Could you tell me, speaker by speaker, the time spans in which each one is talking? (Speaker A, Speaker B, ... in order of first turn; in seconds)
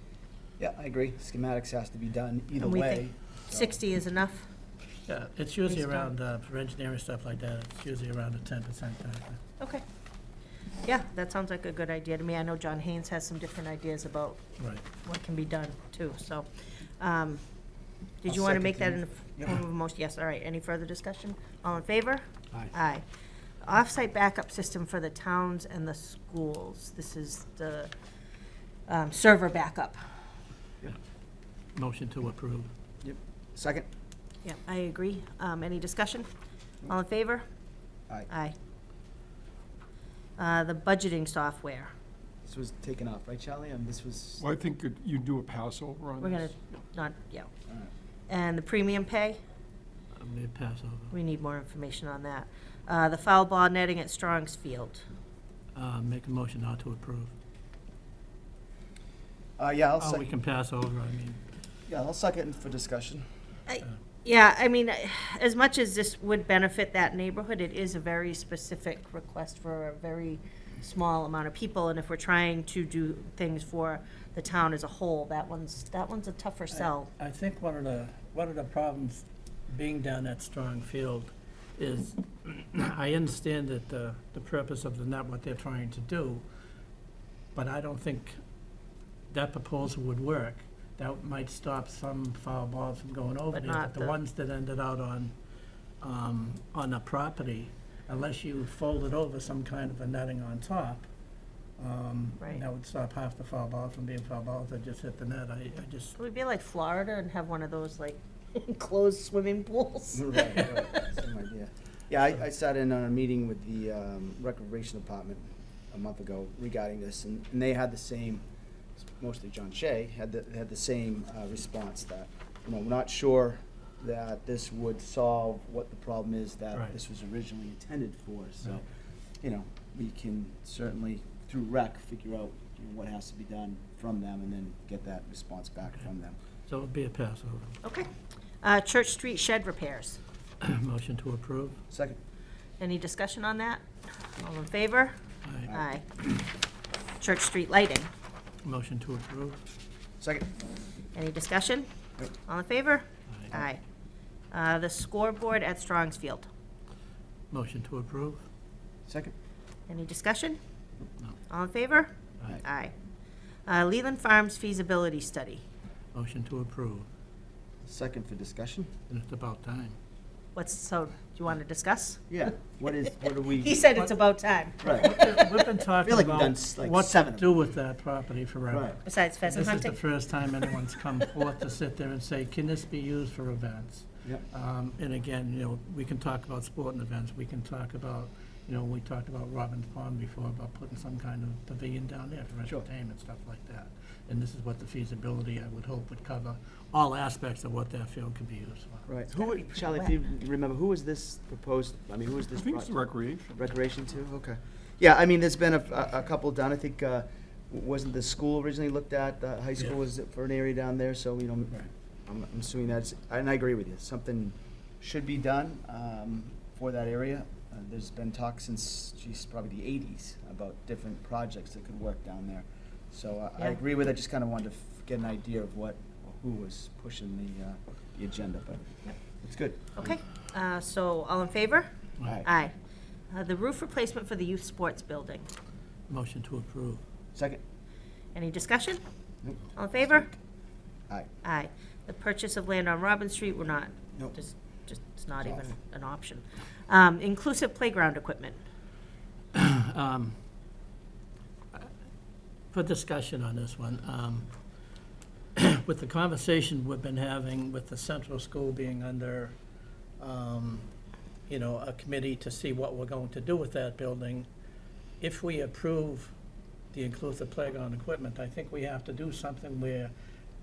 Speaker A: 0.6-3.8, 18.3-19.6, 33.0-33.9, 42.4-44.5, 59.6-60.3, 61.9-63.2, 110.1-118.4, 119.0-128.8, 129.4-136.4, 141.9-142.2, 150.2-150.5, 159.1-159.3, 167.8-168.9, 172.3-173.7, 174.8-175.2, 176.0-177.6, 178.7-179.0, 199.1-203.0, 203.5-228.8, 229.4-230.2, 232.2-232.5, 237.3-237.6, 239.4-240.4, 245.4-245.7
Speaker B: 2.6-4.4, 5.7-6.1, 10.8-14.4, 15.0-17.4, 18.2-23.0, 23.6-27.9, 28.9-30.0, 34.4-36.3, 36.9-37.4, 38.3-38.5, 40.4-41.9, 46.2-47.5, 48.3-49.4, 51.1-55.0, 63.7-77.1, 93.5-94.2, 106.2-110.7, 137.8-138.1, 138.6-140.2, 142.8-143.8, 144.3-145.2, 145.7-146.2, 147.2-148.1, 151.1-151.9, 152.4-153.8, 154.5-156.5, 159.9-160.6, 161.5-162.9, 163.7-165.6, 170.5-172.4, 173.5-175.3, 179.0-180.0, 199.3-200.1, 229.9-231.9, 232.4-232.7, 233.3-235.5, 238.3-239.0, 239.8-240.3, 241.4-248.6
Speaker C: 5.1-9.4, 14.6-14.8, 31.7-32.7, 50.1-51.2, 55.7-57.3, 60.0-61.4, 76.7-86.4, 87.5-88.4, 89.3-95.3, 96.0-101.0, 101.8-106.2, 136.7-137.8, 140.6-141.8, 145.4-145.7, 148.6-149.6, 157.5-158.4, 166.1-167.1, 169.1-170.0, 174.8-199.1, 236.1-237.0, 249.5-250.4, 252.7-254.5, 255.6-259.6, 260.2-260.9, 261.5-264.5, 265.2-266.3, 266.9-270.1
Speaker D: 44.4-46.5, 202.5-203.7